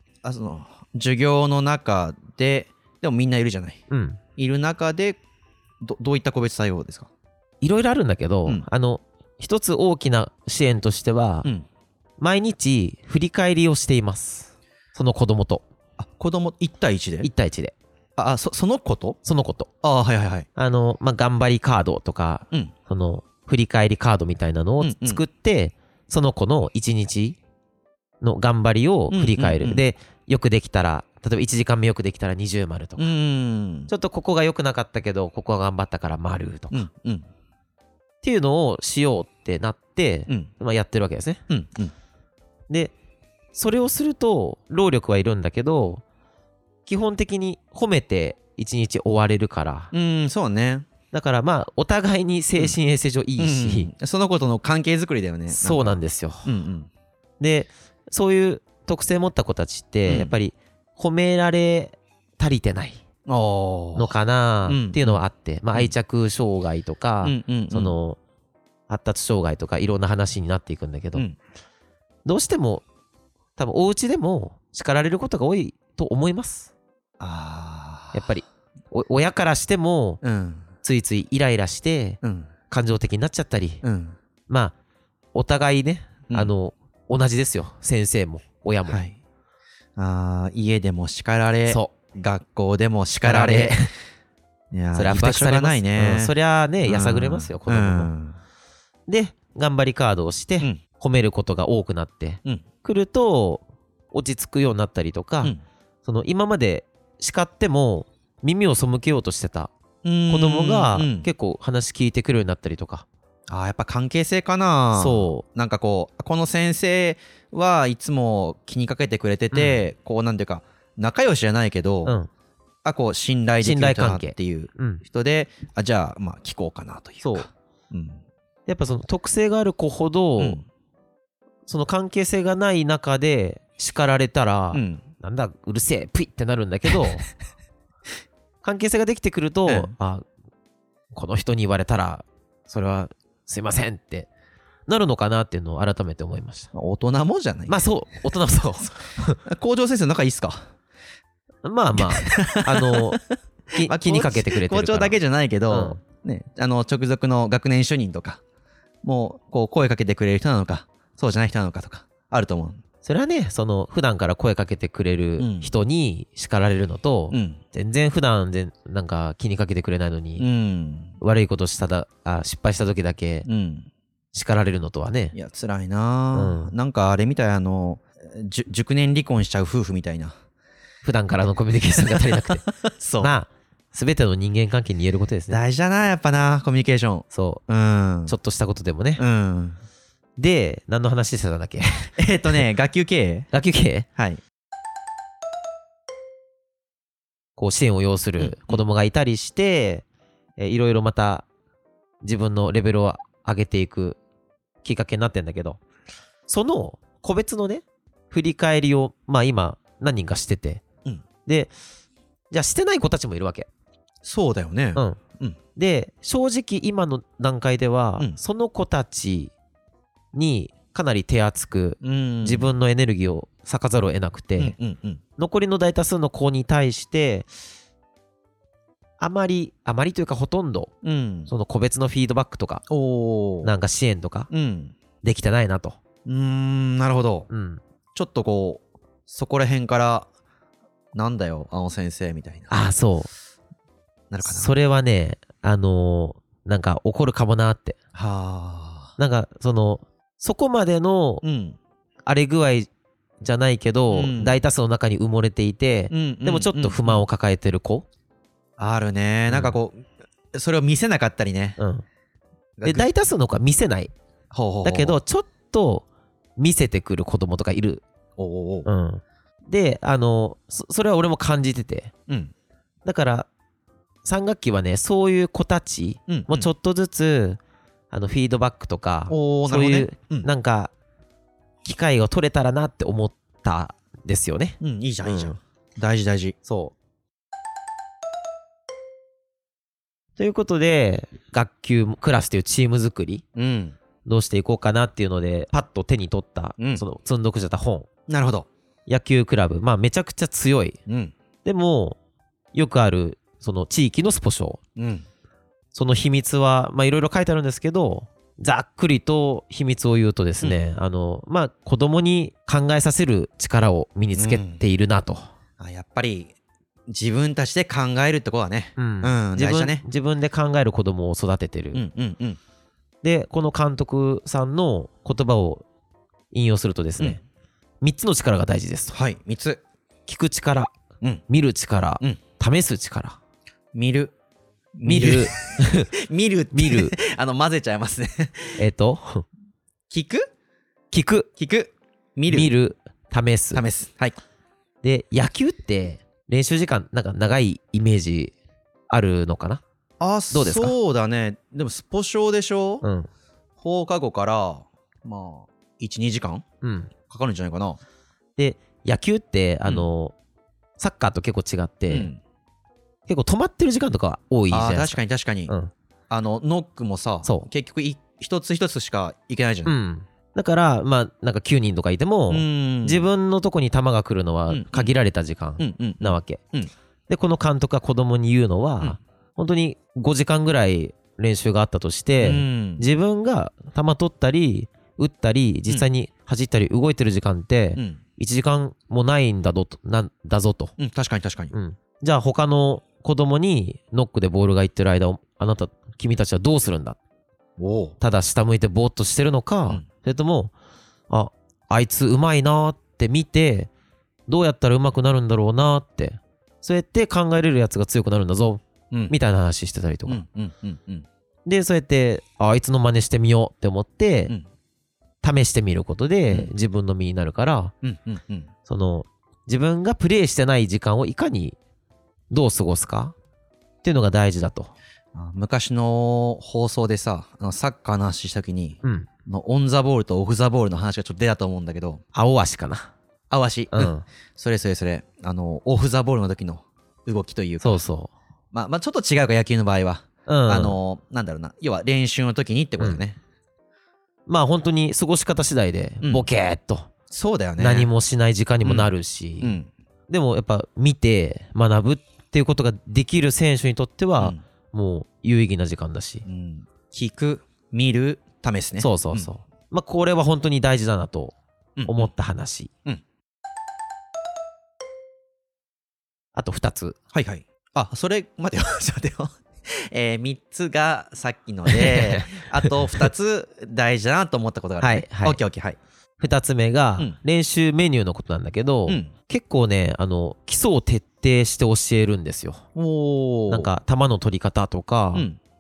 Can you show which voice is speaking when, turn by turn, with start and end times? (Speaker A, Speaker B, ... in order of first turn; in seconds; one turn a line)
Speaker A: 0.2-3.8
Speaker B: 3.9-4.2
Speaker A: 4.4-5.2
Speaker A: 5.8-7.1
Speaker B: 7.6-11.5
Speaker B: 12.2-15.7
Speaker A: 16.0-17.3
Speaker B: 17.2-17.8
Speaker A: 18.2-19.2
Speaker B: 19.2-19.7
Speaker A: 19.8-20.5
Speaker B: 20.6-27.4
Speaker A: 24.8-25.2
Speaker B: 28.2-33.1
Speaker A: 29.1-29.8
Speaker A: 33.0-33.9
Speaker B: 33.9-36.9
Speaker A: 36.7-37.3
Speaker B: 38.2-41.4
Speaker A: 41.5-41.9
Speaker B: 42.7-42.9
Speaker B: 43.5-46.0
Speaker B: 46.9-49.9
Speaker A: 49.9-50.9
Speaker B: 51.1-53.9
Speaker A: 53.4-56.9
Speaker B: 55.5-56.5
Speaker B: 57.4-63.0
Speaker A: 60.1-60.3
Speaker A: 63.3-64.1
Speaker B: 64.0-68.2
Speaker A: 64.7-65.2
Speaker A: 67.2-68.0
Speaker B: 68.9-71.3
Speaker B: 72.2-72.8
Speaker B: 73.6-76.7
Speaker A: 77.2-78.3
Speaker B: 78.1-80.2
Speaker A: 80.2-80.7
Speaker B: 80.8-82.2
Speaker A: 82.2-82.5
Speaker B: 82.7-83.8
Speaker A: 83.8-84.2
Speaker B: 84.5-84.7
Speaker B: 85.3-89.0
Speaker A: 88.9-89.2
Speaker A: 90.0-93.8
Speaker B: 91.7-91.9
Speaker B: 93.2-93.9
Speaker A: 94.7-96.3
Speaker B: 95.0-98.1
Speaker A: 96.8-98.4
Speaker B: 99.1-109.7
Speaker A: 110.0-111.3
Speaker B: 110.3-113.1
Speaker A: 113.5-122.2
Speaker B: 115.0-115.4
Speaker B: 119.5-119.8
Speaker A: 122.8-128.2
Speaker B: 123.6-125.0
Speaker B: 127.2-127.5
Speaker B: 128.7-130.6
Speaker A: 130.4-130.7
Speaker B: 131.7-137.3
Speaker A: 134.7-135.1
Speaker B: 138.6-140.2
Speaker A: 139.7-139.9
Speaker B: 141.1-144.3
Speaker B: 144.9-146.7
Speaker A: 146.7-147.8
Speaker B: 147.7-149.4
Speaker A: 149.4-150.7
Speaker B: 151.6-153.2
Speaker A: 152.0-153.2
Speaker B: 153.7-155.2
Speaker A: 153.8-158.4
Speaker B: 155.7-156.0
Speaker A: 159.0-162.8
Speaker B: 163.0-170.5
Speaker A: 165.4-165.7
Speaker A: 167.3-167.6
Speaker A: 170.4-171.2
Speaker B: 171.2-173.5
Speaker A: 173.5-173.9
Speaker B: 174.3-175.4
Speaker A: 175.3-180.3
Speaker B: 176.3-176.7
Speaker B: 181.0-182.7
Speaker A: 182.0-183.3
Speaker B: 183.2-185.6
Speaker A: 185.5-188.4
Speaker B: 187.3-187.6
Speaker B: 188.3-189.2
Speaker A: 189.2-189.8
Speaker B: 190.4-192.2
Speaker A: 192.2-193.5
Speaker B: 193.5-194.1
Speaker A: 194.2-194.4
Speaker B: 197.6-200.1
Speaker A: 198.4-198.8
Speaker B: 200.6-201.5
Speaker B: 202.2-204.2
Speaker B: 204.8-205.8
Speaker B: 206.5-210.8
Speaker B: 211.5-211.7
Speaker B: 212.5-213.7
Speaker A: 214.2-215.6
Speaker B: 215.8-219.5
Speaker B: 220.3-224.8
Speaker A: 222.0-222.7
Speaker A: 224.6-225.2
Speaker B: 225.4-227.5
Speaker B: 229.2-230.9
Speaker A: 231.0-231.5
Speaker B: 231.5-232.8
Speaker A: 232.9-233.7
Speaker B: 233.6-234.5
Speaker A: 234.5-234.9
Speaker B: 235.2-236.0
Speaker A: 236.2-237.5
Speaker B: 237.5-237.8
Speaker A: 238.2-240.3
Speaker A: 241.1-242.8
Speaker B: 242.7-243.3
Speaker A: 244.3-244.7
Speaker B: 244.4-248.0
Speaker A: 248.2-249.1
Speaker B: 249.2-251.4
Speaker A: 251.4-251.8
Speaker B: 252.3-252.9
Speaker B: 253.4-258.1
Speaker A: 254.1-254.6
Speaker A: 256.1-257.2
Speaker A: 258.8-261.8
Speaker B: 259.5-259.8
Speaker B: 261.8-262.1
Speaker A: 262.8-263.1
Speaker B: 262.8-264.1
Speaker A: 264.5-265.2
Speaker B: 264.8-266.1
Speaker B: 266.6-268.0
Speaker A: 268.4-268.9
Speaker B: 268.9-272.1
Speaker B: 273.1-273.5
Speaker B: 274.2-277.6
Speaker A: 276.3-276.7
Speaker B: 278.1-280.9
Speaker A: 279.3-280.5
Speaker B: 281.8-285.6
Speaker A: 284.8-286.6
Speaker B: 286.6-286.9
Speaker B: 290.4-293.4
Speaker A: 293.6-294.0
Speaker B: 294.2-298.1
Speaker A: 296.8-297.0
Speaker A: 298.3-298.7
Speaker B: 299.1-301.0
Speaker A: 301.1-301.3
Speaker B: 301.6-302.2
Speaker B: 302.7-304.8
Speaker A: 305.0-305.2
Speaker B: 305.9-315.4
Speaker A: 314.3-314.8
Speaker A: 315.8-316.5
Speaker A: 317.1-320.0
Speaker B: 319.0-322.0
Speaker A: 321.9-322.6
Speaker B: 323.2-325.9
Speaker B: 326.5-327.4
Speaker B: 328.0-329.2
Speaker A: 329.1-329.8
Speaker B: 330.3-330.9
Speaker B: 331.5-333.4
Speaker A: 333.9-334.3
Speaker A: 335.0-338.8
Speaker B: 335.1-336.1
Speaker B: 336.7-337.1
Speaker B: 338.8-339.4
Speaker A: 340.1-340.5
Speaker B: 341.1-341.5
Speaker A: 341.6-342.7
Speaker B: 342.5-343.8
Speaker A: 343.7-344.4
Speaker B: 345.0-348.5
Speaker B: 349.1-349.8
Speaker A: 350.2-353.0
Speaker B: 350.5-350.9
Speaker B: 353.0-353.3
Speaker A: 353.8-356.6
Speaker B: 356.8-357.1
Speaker A: 357.3-358.0
Speaker B: 358.6-360.3
Speaker B: 361.0-362.3
Speaker A: 362.1-362.4
Speaker B: 363.3-365.9
Speaker A: 364.7-365.7
Speaker A: 366.3-369.9
Speaker B: 369.9-376.6
Speaker A: 372.5-373.3
Speaker A: 374.7-375.1
Speaker A: 375.8-376.9
Speaker B: 377.3-390.9
Speaker A: 382.4-383.1
Speaker A: 391.0-391.7
Speaker B: 391.7-397.2
Speaker A: 397.8-398.2
Speaker B: 398.2-400.7
Speaker B: 401.3-403.9
Speaker B: 404.5-410.4
Speaker A: 410.3-411.3
Speaker B: 411.7-414.5
Speaker B: 415.4-417.9
Speaker A: 418.0-418.7
Speaker B: 418.9-421.8
Speaker B: 422.5-423.4
Speaker B: 424.0-424.9
Speaker A: 425.4-432.2
Speaker B: 429.0-429.3
Speaker B: 432.3-433.1
Speaker A: 433.5-438.0
Speaker B: 433.9-434.2
Speaker B: 437.8-438.3
Speaker A: 438.7-443.4
Speaker B: 440.5-441.0
Speaker B: 444.5-447.1
Speaker A: 446.2-446.5
Speaker A: 447.3-448.1
Speaker B: 447.8-449.8
Speaker A: 448.8-449.1
Speaker A: 449.6-449.9
Speaker B: 450.3-456.5
Speaker A: 456.5-459.5
Speaker B: 459.0-461.6
Speaker A: 462.0-462.3
Speaker B: 462.1-462.9
Speaker B: 466.6-467.2
Speaker A: 467.3-476.0
Speaker B: 471.9-473.3
Speaker B: 475.0-475.6
Speaker B: 476.4-482.8
Speaker A: 479.1-479.3
Speaker A: 483.0-483.9
Speaker B: 483.7-485.5
Speaker A: 485.3-485.6